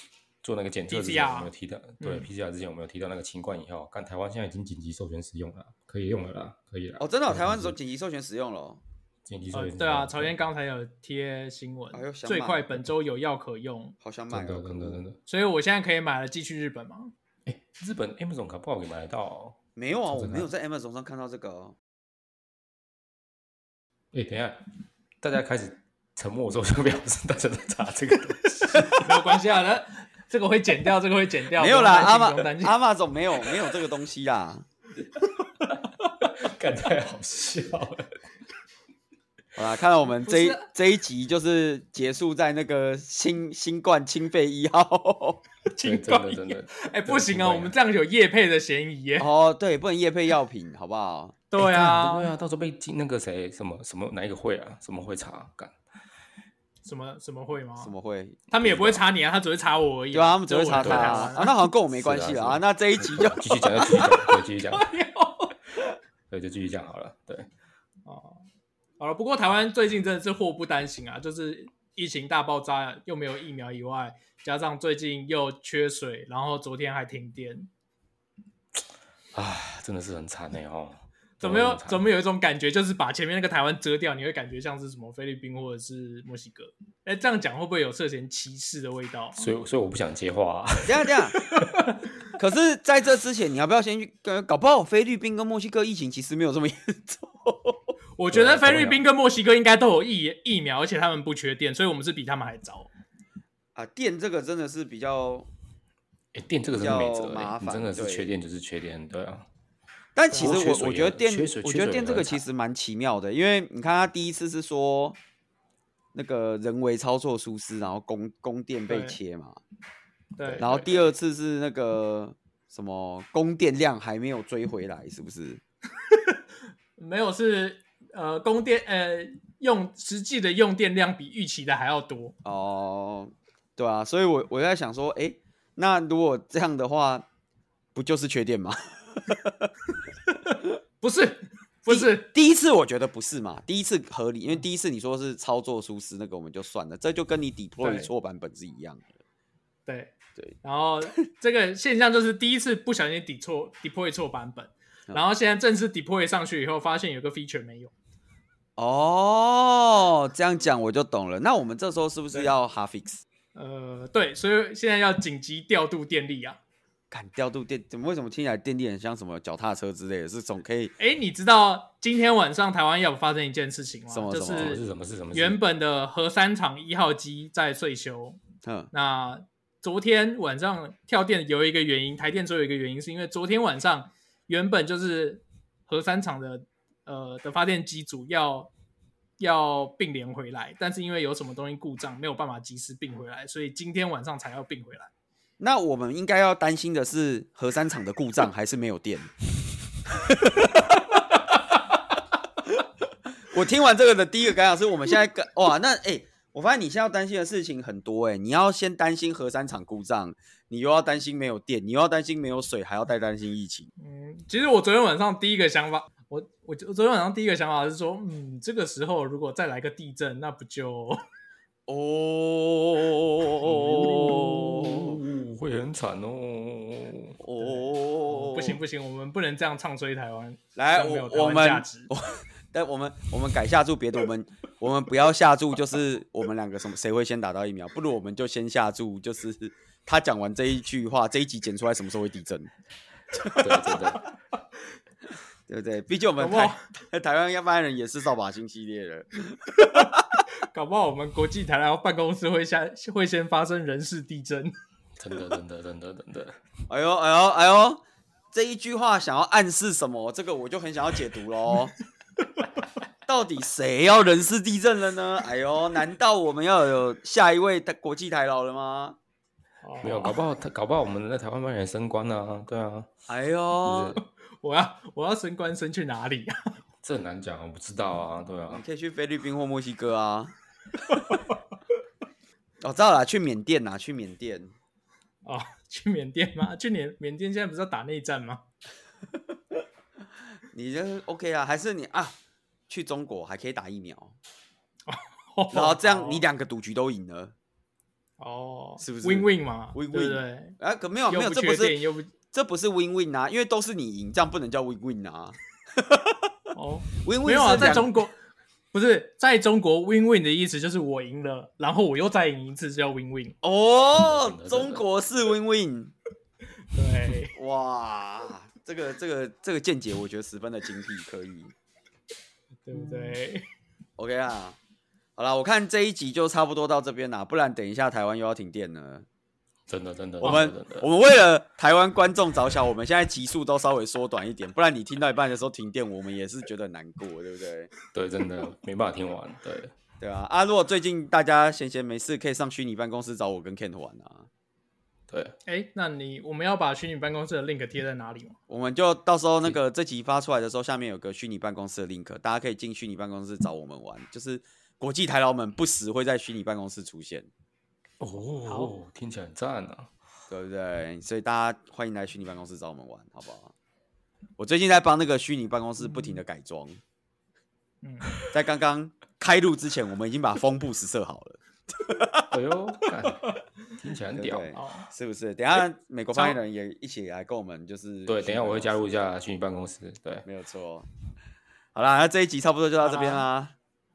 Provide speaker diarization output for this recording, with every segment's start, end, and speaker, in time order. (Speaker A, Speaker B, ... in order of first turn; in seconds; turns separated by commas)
Speaker A: 0.4-7.8, Speaker B: 0.9-2.3, Speaker C: 7.0-8.8, Speaker A: 9.2-10.3, Speaker B: 9.5-14.0, Speaker C: 11.9-12.7, Speaker C: 14.0-15.0, Speaker A: 14.3-15.2, Speaker B: 15.3-17.1, Speaker A: 17.5-20.5, Speaker C: 19.8-21.8, Speaker A: 24.1-24.6, Speaker A: 25.2-29.0, Speaker B: 28.9-32.8, Speaker C: 31.6-34.6, Speaker A: 36.2-38.1, Speaker C: 39.6-45.4, Speaker B: 40.2-40.6, Speaker B: 45.7-49.3, Speaker A: 45.8-47.8, Speaker C: 49.2-51.4, Speaker B: 51.5-52.3, Speaker A: 51.6-55.8, Speaker B: 56.8-57.9, Speaker C: 57.8-59.0, Speaker B: 58.5-61.5, Speaker C: 60.1-64.1, Speaker A: 60.8-64.9, Speaker B: 64.7-65.5, Speaker A: 66.3-67.5, Speaker B: 68.1-68.4, Speaker B: 69.0-77.7, Speaker A: 79.3-82.1, Speaker B: 81.4-89.5, Speaker A: 89.4-91.7, Speaker C: 90.8-91.4, Speaker B: 91.7-92.0, Speaker C: 92.4-98.0, Speaker B: 98.2-102.9, Speaker A: 98.3-99.0, Speaker C: 103.8-105.5, Speaker A: 106.3-109.5, Speaker C: 106.7-108.3, Speaker C: 110.2-115.2, Speaker B: 110.3-110.8, Speaker A: 110.3-112.4, Speaker C: 116.1-119.6, Speaker B: 118.9-119.2, Speaker B: 120.4-120.6, Speaker A: 120.4-121.0, Speaker C: 120.6-125.6, Speaker B: 127.0-132.3, Speaker C: 132.4-137.3, Speaker C: 137.9-139.7, Speaker B: 140.5-142.3, Speaker C: 141.9-149.2, Speaker B: 147.8-148.1, Speaker B: 149.9-157.9, Speaker C: 150.4-151.2, Speaker C: 158.8-163.2, Speaker B: 163.6-166.6, Speaker C: 167.1-170.9, Speaker B: 171.0-178.4, Speaker C: 174.1-174.8, Speaker A: 174.5-175.6, Speaker C: 178.6-178.9, Speaker B: 178.9-188.7, Speaker B: 189.4-195.1, Speaker C: 195.6-199.3, Speaker C: 200.2-201.2, Speaker C: 203.5-213.9, Speaker B: 214.0-221.2, Speaker C: 221.9-225.2, Speaker A: 223.7-227.4, Speaker C: 227.4-228.8, Speaker B: 227.6-232.1, Speaker C: 230.8-242.7, Speaker C: 243.3-244.0, Speaker A: 243.6-244.2, Speaker C: 245.7-250.2, Speaker B: 246.4-246.8, Speaker B: 249.8-250.1, Speaker B: 250.7-254.7, Speaker A: 255.2-256.6, Speaker C: 256.9-258.0, Speaker C: 258.5-261.9, Speaker C: 263.3-269.2, Speaker B: 269.8-270.4, Speaker A: 270.0-273.1, Speaker C: 273.3-274.2, Speaker A: 273.8-274.2, Speaker B: 274.6-276.6, Speaker A: 277.0-278.8, Speaker C: 278.7-280.5, Speaker B: 281.1-281.6, Speaker C: 282.8-284.7, Speaker B: 285.4-288.6, Speaker C: 290.7-292.4, Speaker C: 292.9-294.4, Speaker B: 295.1-296.4, Speaker C: 295.7-297.6, Speaker B: 298.4-300.8, Speaker C: 299.0-302.0, Speaker B: 301.3-302.3, Speaker C: 302.5-306.3, Speaker B: 306.7-308.3, Speaker C: 307.2-308.1, Speaker B: 308.9-313.6, Speaker C: 313.6-316.1, Speaker A: 314.1-315.0, Speaker B: 316.9-317.5, Speaker C: 317.5-321.7, Speaker B: 322.9-323.6, Speaker C: 324.2-324.8, Speaker C: 325.4-329.3, Speaker A: 329.9-331.1, Speaker C: 330.4-337.9, Speaker A: 338.1-339.9, Speaker C: 340.2-344.5, Speaker B: 345.7-348.6, Speaker C: 348.7-357.5, Speaker A: 358.2-360.1, Speaker B: 358.7-358.9, Speaker C: 360.5-363.7, Speaker C: 364.6-367.0, Speaker B: 366.0-366.4, Speaker B: 368.0-368.3, Speaker C: 368.5-372.5, Speaker A: 372.5-374.7, Speaker C: 374.4-379.1, Speaker B: 374.8-375.1, Speaker A: 378.3-380.5, Speaker C: 380.4-381.1, Speaker C: 381.9-383.8, Speaker B: 383.0-383.4